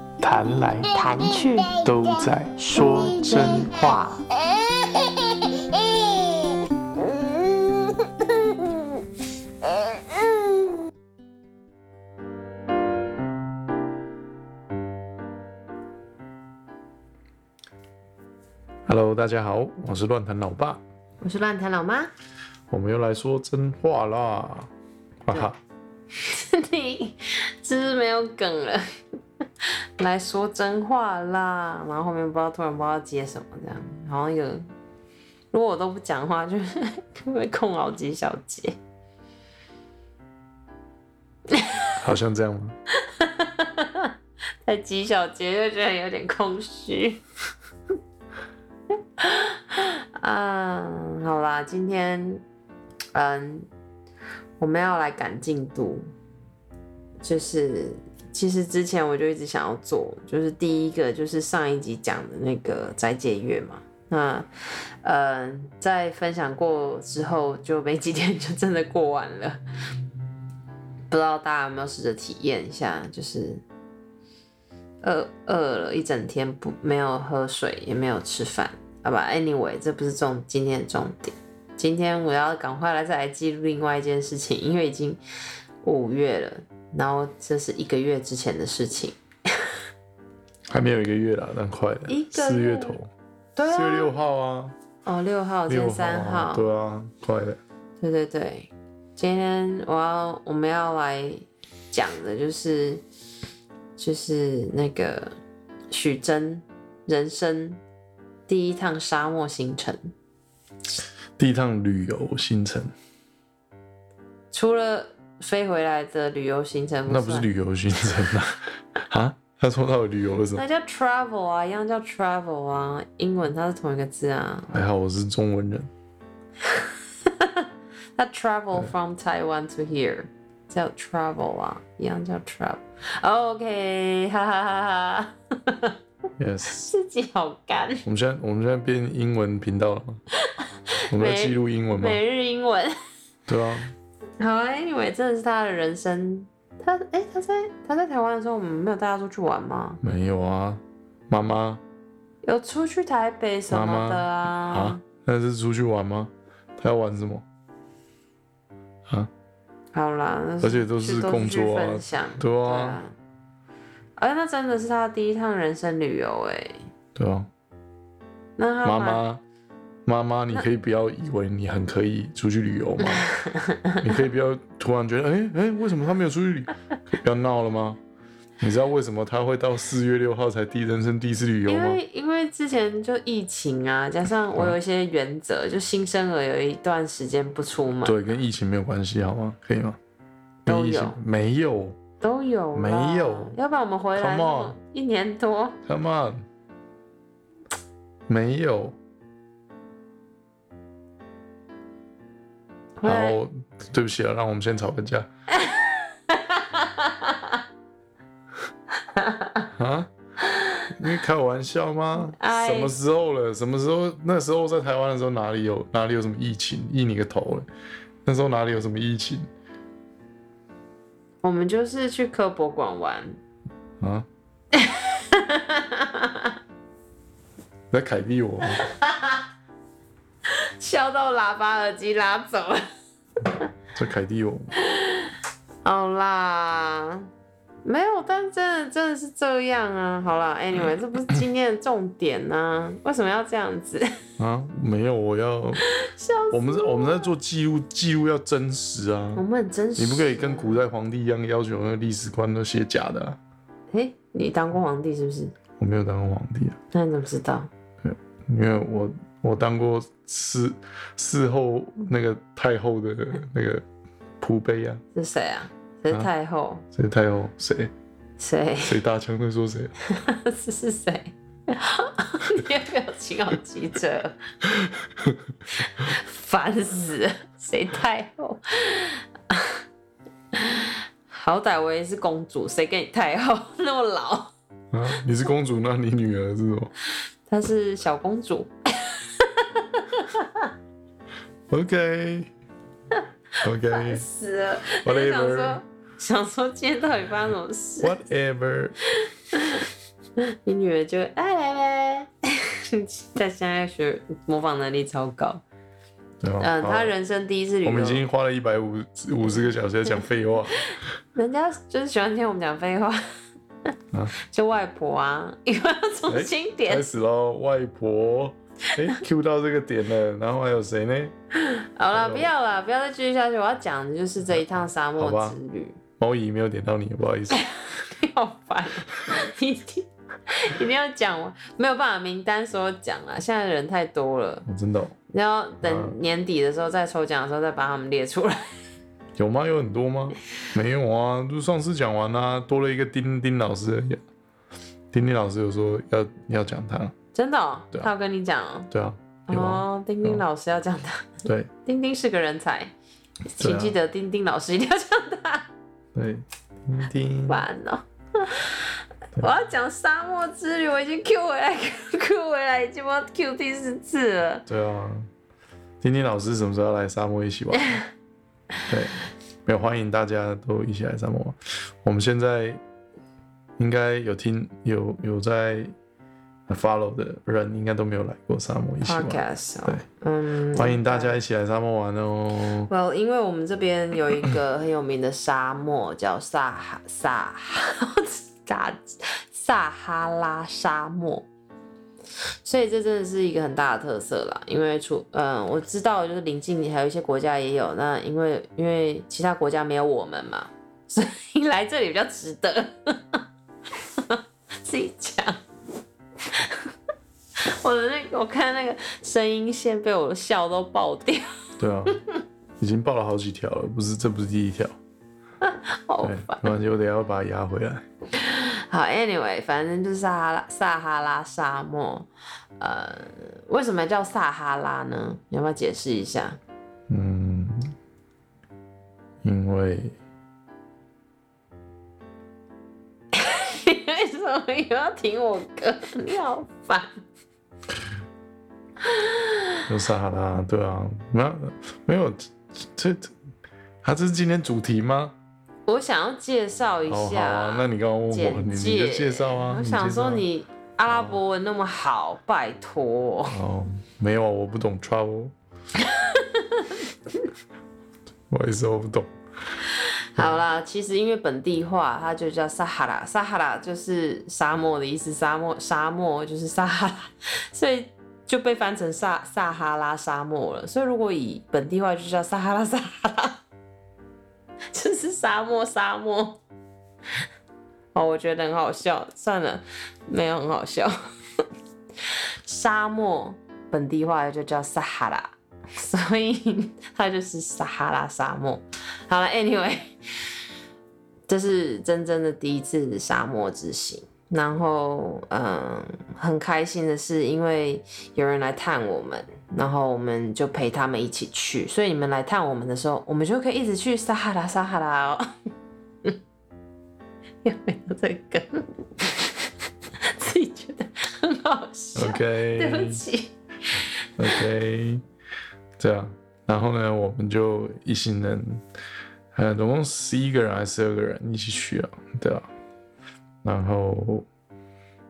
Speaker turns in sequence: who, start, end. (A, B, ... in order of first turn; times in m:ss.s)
0:00.2-0:01.0 A
0:00.9-0:01.8 B
0:01.8-0:03.8 A
0:02.6-0:04.2 B
0:18.9-0:20.8 A
0:21.2-0:22.1 B
0:22.7-0:24.7 A
0:25.2-0:25.6 A
0:26.2-0:28.8 B
0:29.6-0:34.7 B
0:35.5-0:38.8 B
0:41.5-0:41.9 B
0:42.0-0:42.8 A
0:43.0-0:44.1 B
0:44.6-0:47.2 B
0:49.2-0:52.4 B
0:53.1-0:53.7 B
0:54.6-0:56.1 B
0:57.2-1:04.5 B
1:05.0-1:09.6 B
1:11.1-1:13.6 B
1:15.0-1:25.2 B
1:25.8-1:29.2 B
1:30.7-1:33.1 A
1:32.1-1:33.0 B
1:33.6-1:34.1 B
1:33.7-1:34.7 A
1:35.0-1:36.7 B
1:35.7-1:37.6 A
1:38.0-1:43.0 B
1:44.0-1:45.4 B
1:45.9-1:47.8 B
1:48.5-1:50.1 B
1:51.4-1:52.9 A
1:54.5-1:57.5 B
1:57.1-2:00.6 A
2:00.5-2:04.8 B
2:04.7-2:05.9 A
2:06.7-2:15.9 B
2:16.4-2:16.9 A
2:16.7-2:18.0 B
2:18.0-2:20.2 A
2:20.5-2:22.9 B
2:21.1-2:22.2 A
2:23.5-2:23.9 A
2:24.4-2:30.0 B
2:30.0-2:31.8 A
2:32.4-2:35.0 B
2:33.7-2:37.4 A
2:39.9-2:43.1 B
2:40.6-2:43.0 A
2:44.2-2:46.9 B
2:47.2-2:47.5 A
2:48.6-2:49.2 B
2:48.8-2:49.4 A
2:50.0-2:53.3 A
2:53.0-2:54.2 B
2:54.0-2:58.0 A
2:58.6-3:02.0 A
3:01.6-3:08.2 B
3:08.0-3:10.0 A
3:10.6-3:11.2 B
3:10.6-3:12.0 A
3:12.2-3:15.8 B
3:12.7-3:13.6 A
3:14.2-3:14.7 A
3:15.8-3:16.4 A
3:18.3-3:19.0 A
3:23.0-3:23.4 B
3:23.0-3:25.3 A
3:25.5-3:27.6 B
3:29.1-3:29.6 B
3:29.8-3:30.1 A
3:30.4-3:30.9 B
3:31.0-3:37.7 A
3:32.2-3:32.9 B
3:38.2-3:39.5 A
3:41.4-3:43.4 B
3:44.0-3:44.3 A
3:44.7-3:46.5 B
3:47.9-3:48.8 A
3:48.8-3:49.4 B
3:50.8-3:52.8 B
3:53.9-3:54.7 A
3:54.8-3:57.3 B
3:57.8-4:04.1 B
4:04.4-4:05.8 A
4:05.8-4:07.3 B
4:06.5-4:09.4 A
4:09.4-4:10.8 B
4:10.0-4:13.4 A
4:13.9-4:15.5 B
4:15.8-4:16.8 A
4:16.9-4:17.7 B
4:18.0-4:23.8 A
4:24.4-4:25.0 A
4:25.1-4:26.8 B
4:26.9-4:27.9 A
4:28.4-4:29.0 B
4:28.8-4:29.9 A
4:30.1-4:34.4 B
4:34.8-4:35.4 A
4:35.7-4:39.7 B
4:40.5-4:44.5 B
4:44.9-4:46.9 A
4:47.5-4:50.7 B
4:51.7-4:52.5 A
4:53.6-4:54.2 A
4:53.9-4:58.2 B
4:54.9-4:55.8 A
4:58.0-4:59.0 A
4:59.3-4:59.9 B
5:00.4-5:05.6 B
5:06.4-5:07.1 A
5:06.6-5:08.2 B
5:07.8-5:10.9 A
5:10.1-5:13.2 B
5:14.4-5:17.1 B
5:16.3-5:21.3 A
5:21.5-5:26.0 B
5:22.1-5:22.5 A
5:24.5-5:25.6 A
5:26.2-5:27.6 A
5:27.5-5:34.6 B
5:34.6-5:35.1 A
5:35.3-5:38.6 B
5:35.8-5:36.2 A
5:39.4-5:44.2 A
5:45.1-5:47.1 A
5:47.3-5:48.9 B
5:48.9-5:50.4 A
5:49.5-5:52.9 B
5:53.5-5:55.7 B
5:53.6-5:53.9 A
5:56.1-5:57.6 A
5:57.5-6:04.6 B
6:04.7-6:05.3 A
6:06.0-6:08.0 A
6:08.9-6:12.8 A
6:13.8-6:15.9 A
6:16.7-6:20.0 A
6:19.0-6:21.4 B
6:20.8-6:22.9 A
6:22.9-6:31.5 B
6:32.6-6:43.4 B
6:44.2-6:45.6 B
6:46.5-6:46.9 B
6:47.7-6:51.4 B
6:51.8-6:52.2 A
6:52.8-6:55.0 A
6:55.6-6:56.7 B
6:56.2-6:58.0 A
6:58.4-7:06.6 B
7:07.1-7:07.9 A
7:09.4-7:10.2 A
7:13.3-7:17.2 B
7:19.0-7:19.8 B
7:19.9-7:23.3 A
7:24.0-7:25.4 A
7:25.8-7:33.6 B
7:27.1-7:30.4 A
7:31.0-7:31.4 A
7:33.5-7:35.5 A
7:36.0-7:37.0 B
7:38.5-7:39.3 A
7:39.9-7:53.6 B
7:54.9-7:56.6 B
7:58.1-8:01.1 B
8:02.3-8:10.5 B
8:11.5-8:25.5 B
8:27.6-8:29.7 B
8:30.2-8:34.6 B
8:32.1-8:33.2 A
8:34.4-8:35.2 A
8:36.0-8:38.8 A
8:39.5-8:42.7 A
8:43.6-8:44.4 A